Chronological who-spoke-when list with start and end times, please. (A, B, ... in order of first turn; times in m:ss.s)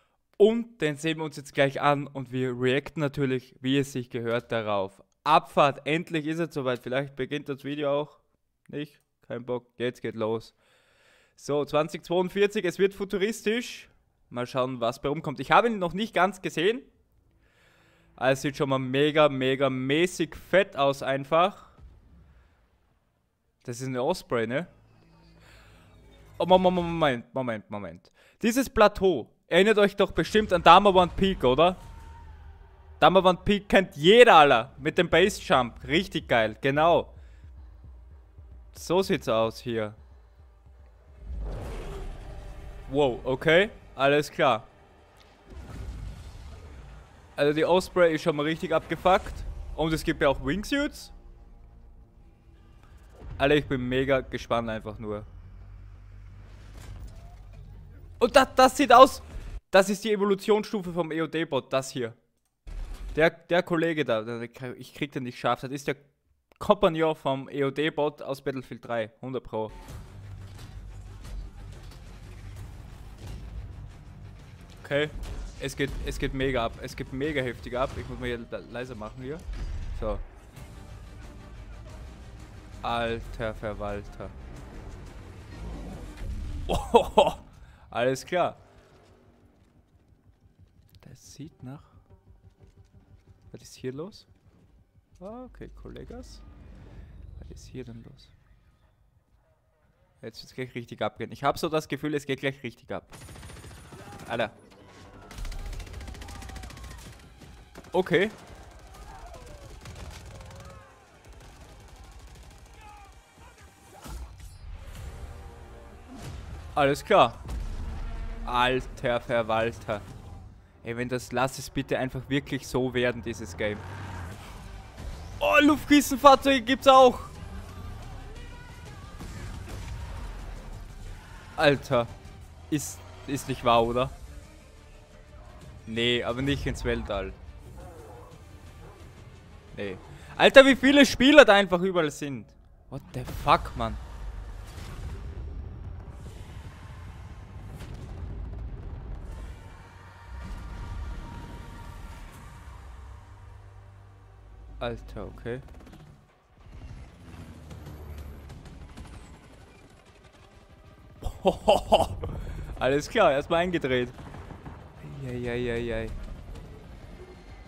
0:00.4-0:10.6 A
0:11.4-0:16.9 A
0:18.2-0:21.7 A
0:23.6-0:24.7 A
0:26.4-0:31.8 A
0:33.0-0:37.1 A
0:38.7-0:40.0 A
0:42.9-0:44.7 A
0:47.4-0:51.1 A
0:53.4-0:55.3 A
0:58.2-1:02.2 A
1:03.1-1:06.0 A
1:06.6-1:09.7 A
1:14.8-1:20.2 A
1:22.8-1:24.3 A
1:26.7-1:28.6 A
1:31.0-1:32.0 A
1:33.5-1:34.3 A
1:35.2-1:36.4 A
1:37.4-1:38.3 A
1:40.2-1:43.2 A
1:44.2-1:44.5 A
1:47.9-1:48.4 A
1:56.7-1:57.4 A
1:58.4-2:00.0 A
2:00.8-2:03.8 A
2:05.4-2:07.3 A
2:11.6-2:12.1 A
2:12.7-2:14.1 A
2:15.8-2:17.4 A
2:19.7-2:24.0 A
2:34.8-2:35.6 A
2:41.2-2:44.2 A
2:45.0-2:46.2 A